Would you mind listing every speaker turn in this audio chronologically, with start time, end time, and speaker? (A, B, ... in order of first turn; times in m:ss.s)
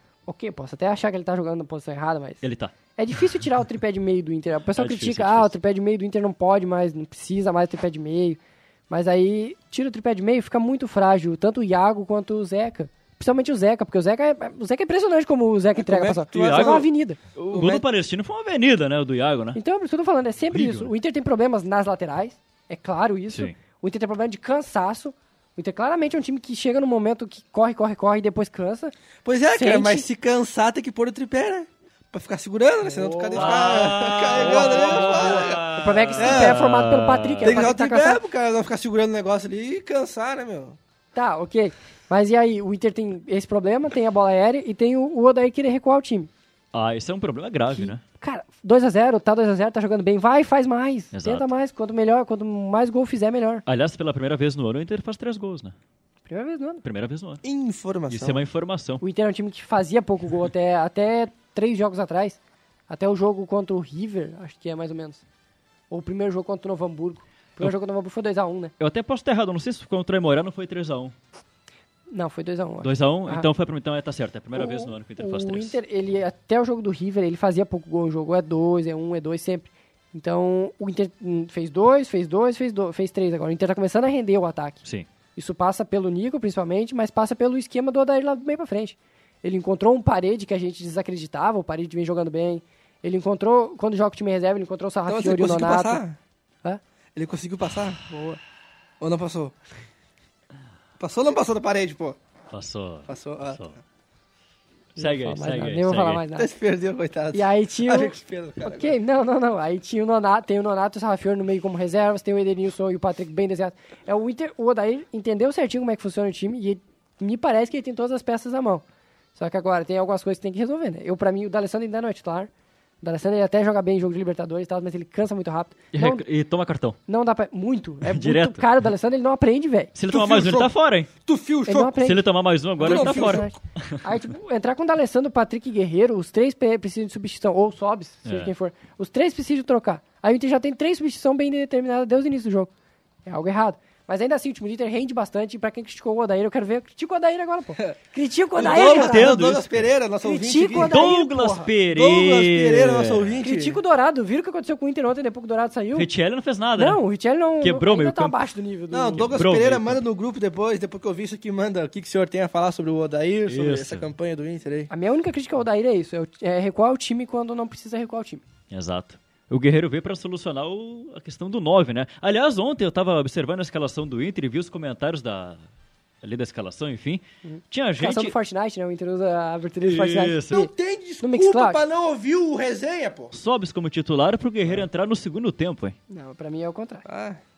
0:00.3-0:02.4 A
0:02.4-0:02.7 B
0:03.0-0:17.2 A
0:04.8-0:05.5 B
0:15.8-0:16.9 C
0:16.3-0:16.8 B
0:17.4-0:19.6 B
0:17.5-0:17.8 C
0:19.6-0:28.9 A
0:20.5-0:20.9 B
0:23.3-0:23.6 B
0:29.2-0:35.6 C
0:29.5-0:30.1 A
0:32.8-0:38.2 A
0:33.3-0:37.7 B
0:36.2-0:36.6 C
0:37.4-0:40.8 C
0:41.2-0:46.3 A
0:46.7-0:48.0 B
0:47.7-0:53.6 A
0:51.1-0:51.5 B
0:53.7-0:55.8 B
0:56.3-0:56.8 A
0:56.8-0:57.4 B
0:57.4-0:58.4 C
0:58.1-0:59.0 B
0:59.0-1:05.2 A
1:05.9-1:08.7 A
1:08.8-1:11.1 B
1:12.1-1:13.5 A
1:12.8-1:15.8 B
1:14.6-1:24.8 A
1:25.4-1:36.0 A
1:35.1-1:36.2 C
1:37.2-1:38.4 C
1:39.0-1:39.6 C
1:41.0-1:42.2 C
1:42.5-1:43.8 B
1:43.1-1:43.7 C
1:45.0-1:46.2 B
1:45.0-1:46.5 A
1:46.4-1:49.0 C
1:47.3-1:58.8 A
1:59.4-2:02.5 A
2:03.0-2:06.2 A
2:05.9-2:07.0 B
2:07.1-2:09.9 A
2:08.0-2:08.7 B
2:10.0-2:11.1 B
2:10.1-2:12.0 C
2:11.7-2:12.3 A
2:12.0-2:14.0 B
2:12.8-2:22.7 A
2:12.8-2:13.5 C
2:18.2-2:18.5 B
2:23.3-2:29.4 A
2:28.6-2:31.1 C
2:28.6-2:29.9 B
2:30.2-2:31.7 A
2:30.8-2:33.4 B
2:31.9-2:33.8 C
2:33.4-2:36.1 A
2:36.0-2:37.0 B
2:36.8-2:39.3 A
2:37.6-2:38.4 B
2:38.9-2:44.9 C
2:39.2-2:40.0 B
2:43.5-2:44.1 B
2:44.9-2:48.4 A
2:48.7-2:55.6 B
2:56.2-2:58.4 B
2:57.4-3:00.7 A
2:59.9-3:00.7 B
3:00.5-3:03.3 C
3:01.2-3:01.8 A
3:03.3-3:06.0 B
3:06.1-3:07.1 A
3:07.1-3:07.4 C